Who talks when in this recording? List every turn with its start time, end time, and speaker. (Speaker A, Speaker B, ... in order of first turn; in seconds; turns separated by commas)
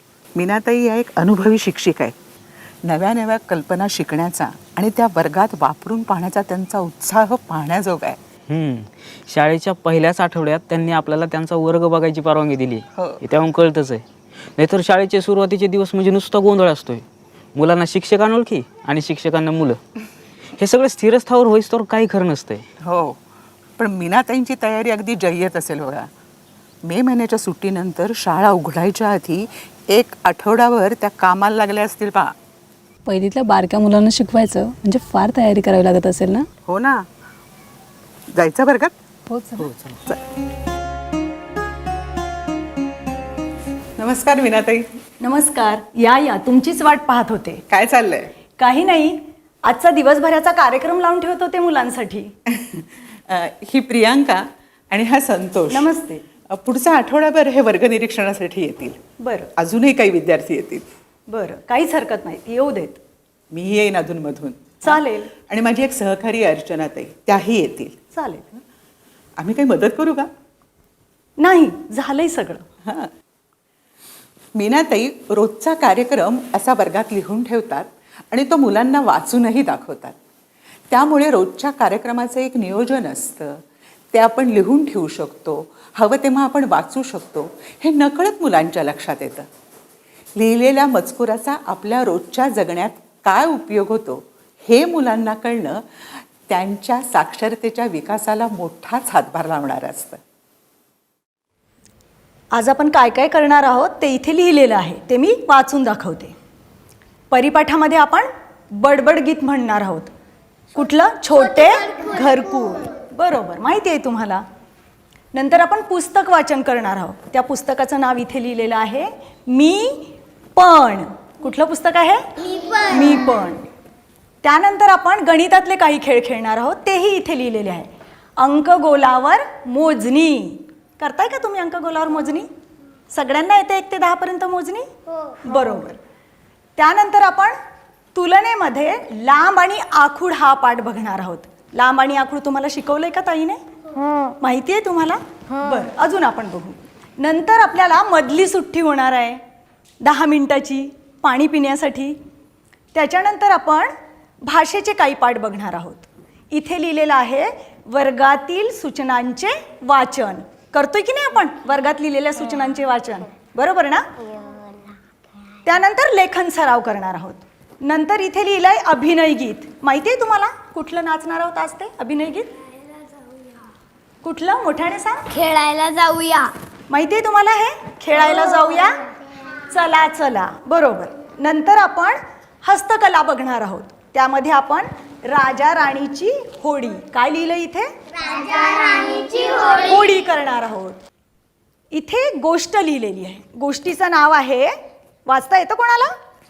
Speaker A: 0.3-2.2, Speaker A: 2.9-8.2, Speaker B: 8.5-14.0, Speaker A: 12.9-13.2, Speaker B: 14.6-19.8, Speaker B: 20.6-22.6, Speaker A: 22.8-23.2, Speaker A: 23.8-26.1, Speaker A: 26.8-32.3, Speaker C: 33.1-36.5, Speaker A: 36.7-37.1, Speaker A: 38.3-39.0, Speaker C: 39.3-39.7, Speaker A: 44.0-44.9, Speaker D: 45.2-47.6, Speaker A: 47.7-48.3, Speaker D: 48.6-52.3, Speaker A: 52.5-55.9, Speaker D: 55.7-56.2, Speaker A: 56.5-59.0, Speaker D: 59.2-59.5, Speaker A: 59.6-60.9, Speaker D: 61.3-63.0, Speaker A: 63.5-68.0, Speaker D: 64.8-65.3, Speaker D: 68.1-68.6, Speaker A: 69.4-70.3, Speaker D: 71.4-72.7, Speaker A: 74.5-80.2, Speaker A: 80.9-83.6, Speaker A: 84.1-89.5, Speaker A: 90.4-95.8, Speaker A: 96.5-100.2, Speaker D: 102.5-106.3, Speaker D: 107.3-110.1, Speaker D: 110.7-114.4, Speaker D: 115.3-123.6, Speaker E: 122.4-122.9, Speaker D: 124.4-132.5, Speaker D: 133.1-134.9, Speaker E: 135.1-135.6, Speaker D: 135.4-136.0, Speaker D: 136.8-137.6, Speaker D: 138.2-143.6, Speaker D: 144.3-149.4, Speaker D: 150.0-152.2, Speaker D: 152.9-164.1, Speaker E: 164.2-165.0, Speaker D: 165.7-172.5, Speaker E: 173.0-173.4, Speaker D: 174.2-175.2, Speaker E: 175.4-176.4, Speaker D: 176.9-179.0, Speaker D: 179.6-187.9, Speaker E: 188.1-190.1, Speaker D: 189.8-191.0, Speaker D: 191.9-194.7, Speaker D: 195.3-196.1